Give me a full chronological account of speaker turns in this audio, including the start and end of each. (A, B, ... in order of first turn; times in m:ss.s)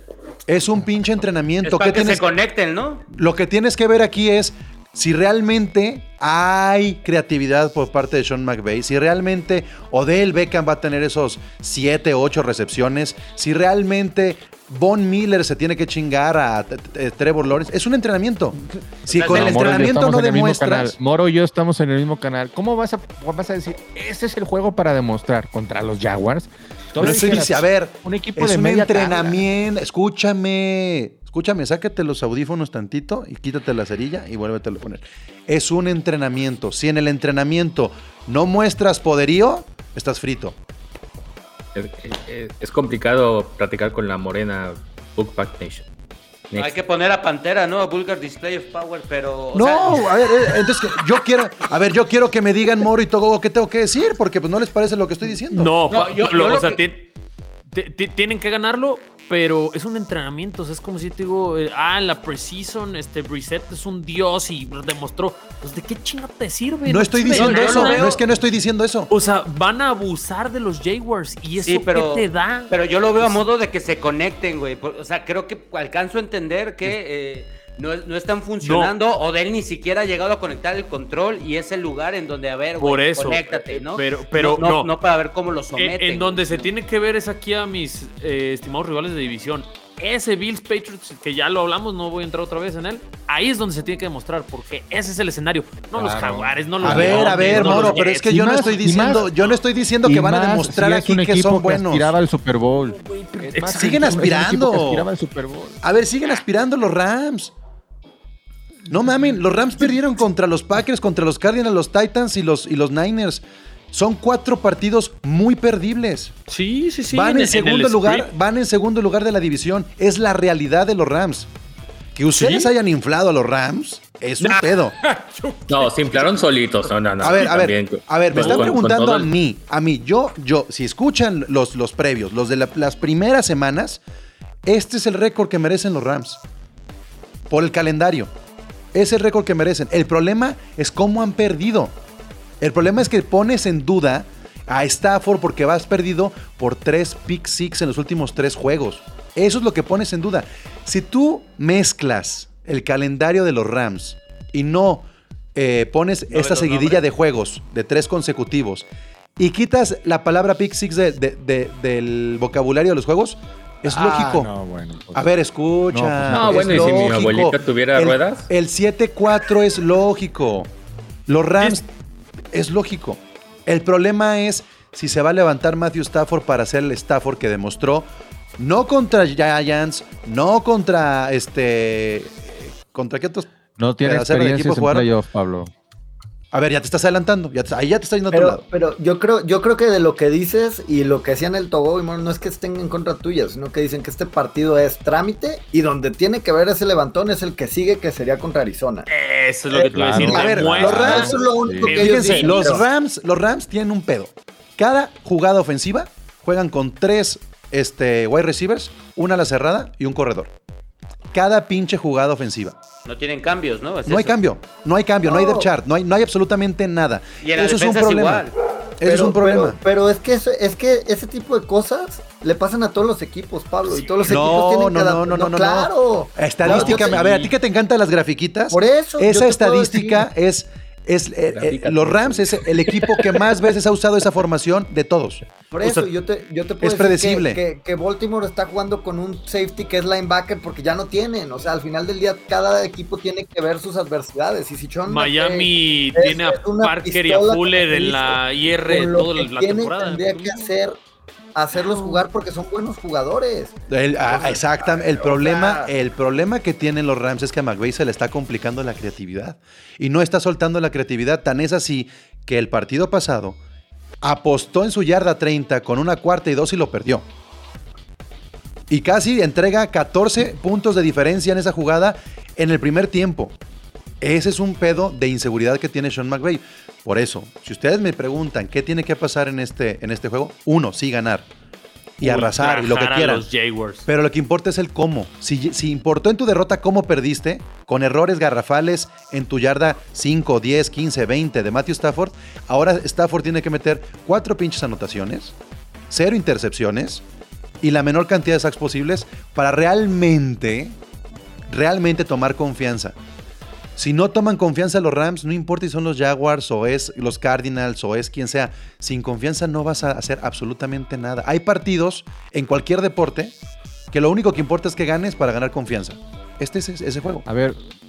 0:00.5-0:02.3 A
0:01.6-0:03.1 B
0:03.1-0:18.6 A
0:19.1-0:20.0 B
0:19.1-0:21.0 A
0:19.2-0:29.4 C
0:27.0-0:40.6 A
0:41.8-0:45.9 D
0:46.6-0:50.8 B
0:49.5-0:55.8 A
0:55.5-0:57.1 E
0:55.9-0:56.8 B
0:57.7-1:08.2 E
1:06.9-1:09.1 A
1:07.3-1:08.2 B
1:09.1-1:13.4 E
1:11.6-1:26.7 B
1:18.6-1:18.9 E
1:22.8-1:24.9 E
1:25.7-1:39.4 E
1:35.9-1:39.3 C
1:36.8-1:42.1 A
1:40.0-1:45.8 C
1:42.9-1:44.2 E
1:43.8-1:45.1 A
1:45.8-1:47.5 A
1:48.9-1:56.4 A
1:56.5-1:58.3 E
1:57.1-2:01.5 A
2:02.2-2:05.0 A
2:02.3-2:02.7 E
2:04.4-2:06.4 E
2:05.7-2:09.4 D
2:07.2-2:14.0 A
2:08.4-2:08.8 E
2:14.6-2:16.4 A
2:17.5-2:18.3 A
2:18.9-2:22.0 A
2:22.6-2:38.8 A
2:36.3-2:36.9 B
2:39.4-2:44.5 A
2:43.8-2:45.3 C
2:45.1-2:50.7 A
2:45.9-2:47.1 C
2:46.3-2:48.5 D
2:51.3-2:51.9 A
2:52.5-3:03.5 A
3:03.8-3:05.7 C
3:04.0-3:05.1 A
3:06.5-3:08.6 A
3:08.3-3:19.1 F
3:19.1-3:22.8 E
3:19.7-3:22.8 F
3:19.9-3:21.9 C
3:20.1-3:21.4 A
3:21.9-3:30.5 A
3:31.3-3:32.8 A
3:33.0-3:34.4 B
3:34.1-3:38.5 A
3:35.2-3:35.7 F
3:37.4-3:38.5 B
3:39.0-3:39.8 A
3:39.0-3:47.2 F
3:43.9-3:44.3 E
3:44.3-3:55.4 A
3:46.6-3:47.5 E
3:48.7-3:50.3 F
3:51.5-3:53.6 D
3:55.7-4:11.0 F
3:56.8-3:57.6 A
4:05.0-4:10.7 E
4:11.6-4:15.9 F
4:11.7-4:12.2 E
4:13.9-4:23.6 A
4:24.2-4:27.3 A
4:28.9-4:33.6 A
4:34.2-4:41.5 A
4:42.2-4:43.5 A
4:42.2-4:44.1 E
4:44.1-4:55.6 A
4:56.1-4:57.2 A
4:57.8-5:01.0 A
5:01.7-5:03.2 A
5:04.0-5:13.5 A
5:14.1-5:17.5 A
5:17.5-5:17.8 C